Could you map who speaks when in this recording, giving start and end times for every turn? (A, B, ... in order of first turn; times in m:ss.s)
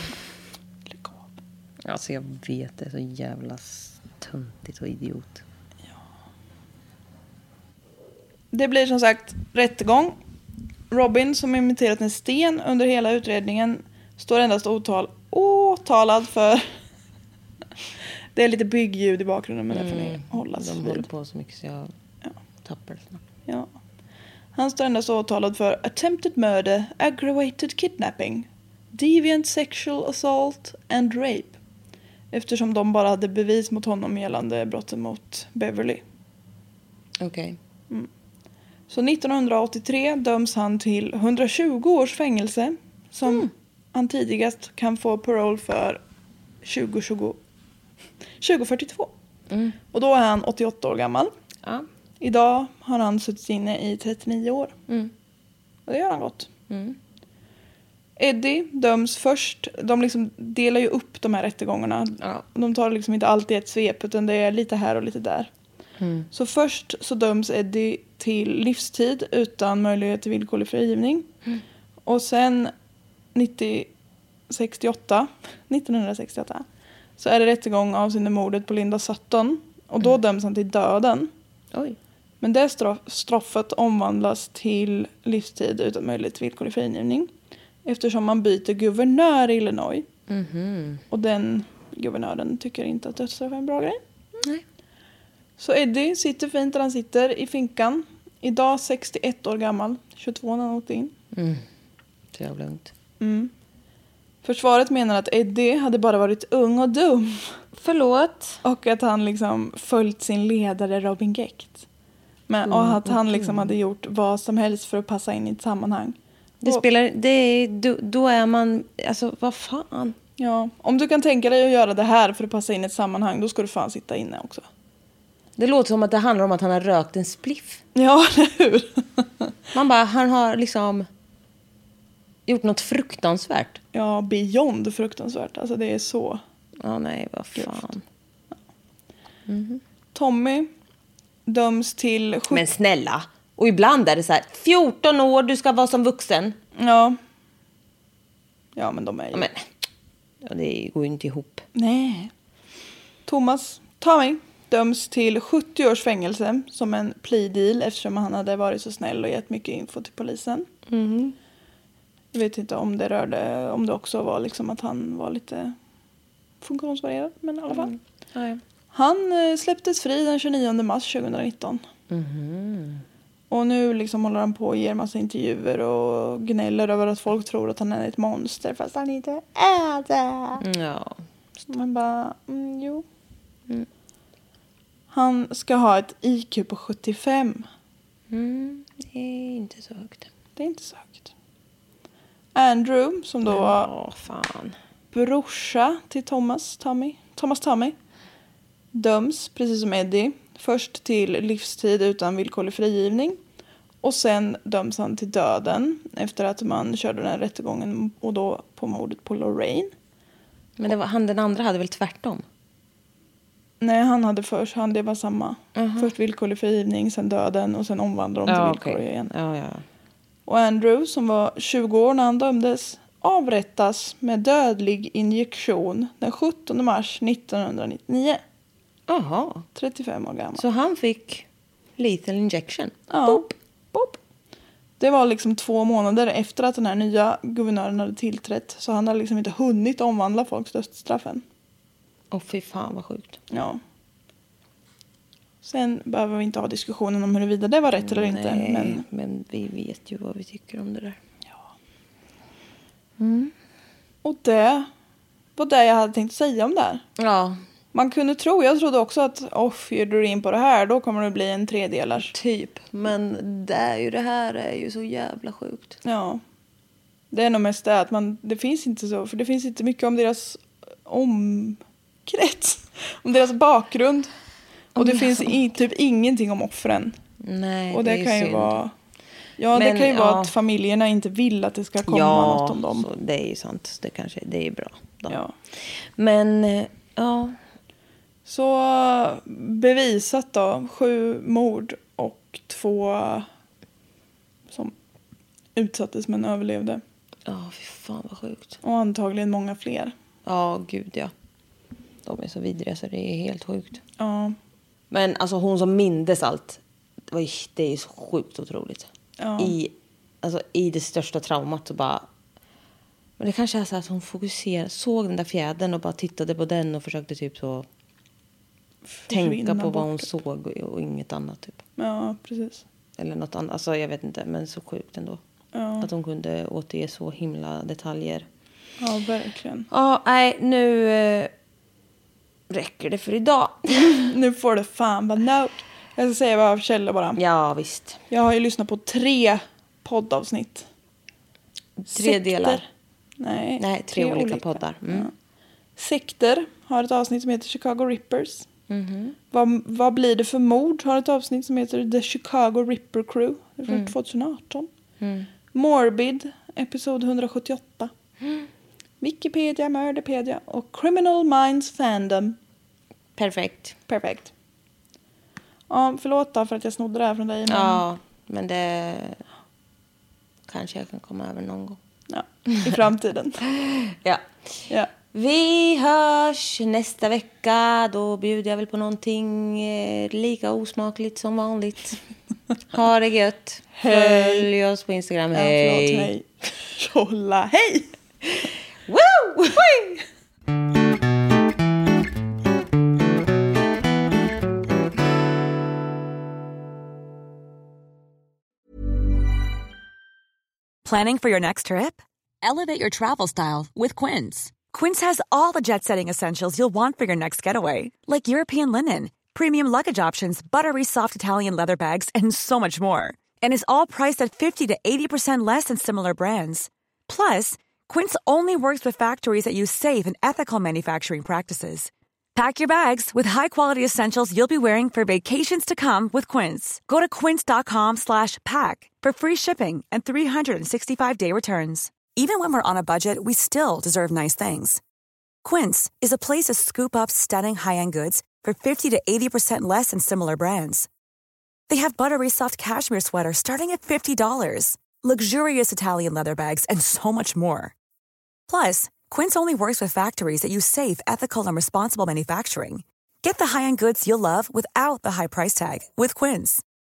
0:00.9-0:01.3 A
0:01.8-0:05.4 B
0:08.5-0:10.2 A
0:10.9-0:16.7 A
0:18.4-0:21.1 A
0:19.7-0:21.9 B
0:22.6-0:23.2 B
0:24.6-0:31.6 A
0:32.3-0:36.0 A
0:37.2-0:37.6 B
0:38.9-0:46.0 A
0:43.3-0:43.5 B
0:46.6-0:47.4 A
0:48.4-0:49.1 A
0:49.5-0:49.8 B
0:49.9-0:51.3 A
0:52.2-0:54.7 A
0:55.9-0:56.5 A
0:56.7-0:57.0 B
0:58.2-1:05.5 A
1:06.0-1:06.3 B
1:06.3-1:11.3 A
1:12.0-1:12.7 A
1:13.4-1:13.9 A
1:14.5-1:16.6 A
1:17.2-1:21.3 A
1:22.4-1:27.3 A
1:27.8-1:30.1 A
1:30.3-1:31.0 B
1:31.1-1:34.0 A
1:35.6-1:41.1 A
1:41.3-1:41.6 B
1:42.4-1:42.9 B
1:43.2-1:43.5 A
1:44.4-1:47.5 A
1:47.8-1:48.6 B
1:48.6-1:51.8 A
1:52.5-1:56.8 A
1:52.7-1:53.7 B
1:56.6-2:00.2 B
2:00.4-2:04.6 A
2:05.6-2:07.8 B
2:08.0-2:09.5 A
2:09.7-2:11.1 B
2:12.5-2:13.8 B
2:13.9-2:16.4 A
2:16.8-2:18.0 B
2:17.6-2:17.9 A
2:19.5-2:19.8 B
2:20.2-2:20.7 A
2:21.5-2:22.6 A
2:22.5-2:26.6 B
2:26.8-2:27.2 A
2:28.8-2:29.5 A
2:29.3-2:29.6 B
2:30.4-2:31.6 B
2:31.8-2:32.3 A
2:33.3-2:40.7 A
2:40.9-2:41.4 B
2:42.3-2:45.8 A
2:46.6-2:47.9 A
2:47.7-2:48.6 B
2:48.9-2:51.8 A
2:52.1-2:53.0 B
2:53.5-3:00.6 A
3:00.6-3:01.2 B
3:01.7-3:03.0 A
3:05.1-3:07.7 A
3:08.3-3:10.3 B
3:10.6-3:11.3 A
3:12.6-3:13.9 A
3:13.5-3:14.8 B
3:15.1-3:18.0 A
3:18.9-3:23.4 A
3:24.0-3:29.9 A
3:30.8-3:32.4 B
3:33.8-3:39.3 A
3:35.8-3:36.1 B
3:38.5-3:39.8 B
3:40.5-3:48.4 A
3:49.1-3:49.7 B
3:49.8-3:50.6 A
3:50.6-3:51.5 B
3:52.0-3:53.5 B
3:53.1-3:54.1 A
3:55.0-4:01.4 A
4:02.3-4:03.4 B
4:03.5-4:03.8 A
4:05.6-4:09.0 A
4:08.0-4:11.2 B
4:13.2-4:13.5 B
4:14.2-4:14.9 A
4:15.6-4:17.0 A
4:17.2-4:17.6 B
4:17.9-4:22.3 A
4:22.2-4:26.0 B
4:26.0-4:26.4 A
4:27.3-4:34.3 A
4:35.0-4:37.2 A
4:35.0-4:35.5 B
4:37.4-4:38.8 B
4:37.9-4:38.9 A
4:39.6-4:43.1 A
4:39.7-4:40.5 B
4:42.0-4:47.6 B
4:48.5-4:53.5 A
4:55.8-4:57.0 A
4:57.5-4:58.8 B
4:58.8-5:00.1 A
5:00.5-5:01.3 B
5:02.2-5:04.0 B
5:04.2-5:04.6 A
5:05.1-5:12.3 B
5:09.4-5:09.8 A
5:13.4-5:17.9 B
5:19.3-5:20.3 A
5:19.3-5:21.8 B
5:22.0-5:22.8 A
5:23.2-5:25.4 B
5:25.7-5:26.1 A
5:26.0-5:28.5 B
5:29.0-5:29.9 A
5:29.9-5:31.5 B
5:32.7-5:34.2 B
5:34.1-5:37.4 A
5:37.4-5:38.2 B
5:38.3-5:40.9 A
5:42.0-5:42.8 B
5:42.1-5:42.8 A
5:43.4-5:45.3 A
5:43.8-5:45.3 B
5:46.0-5:48.7 A
5:48.9-5:49.4 B
5:49.5-5:54.9 A
5:55.2-5:55.5 B
5:55.7-5:58.1 A
5:59.2-6:02.6 A
6:03.4-6:04.0 B
6:04.1-6:04.5 A
6:05.9-6:08.0 A
6:07.7-6:09.4 B
6:10.7-6:12.0 B
6:12.3-6:13.6 A
6:12.7-6:13.0 B
6:13.6-6:14.4 B
6:15.3-6:22.2 B
6:22.9-6:26.3 B
6:24.0-6:24.7 A
6:25.5-6:28.1 A
6:29.1-6:30.2 B
6:41.0-7:15.0 C
7:15.6-7:21.1 C
7:21.9-7:27.9 C
7:28.7-7:36.8 C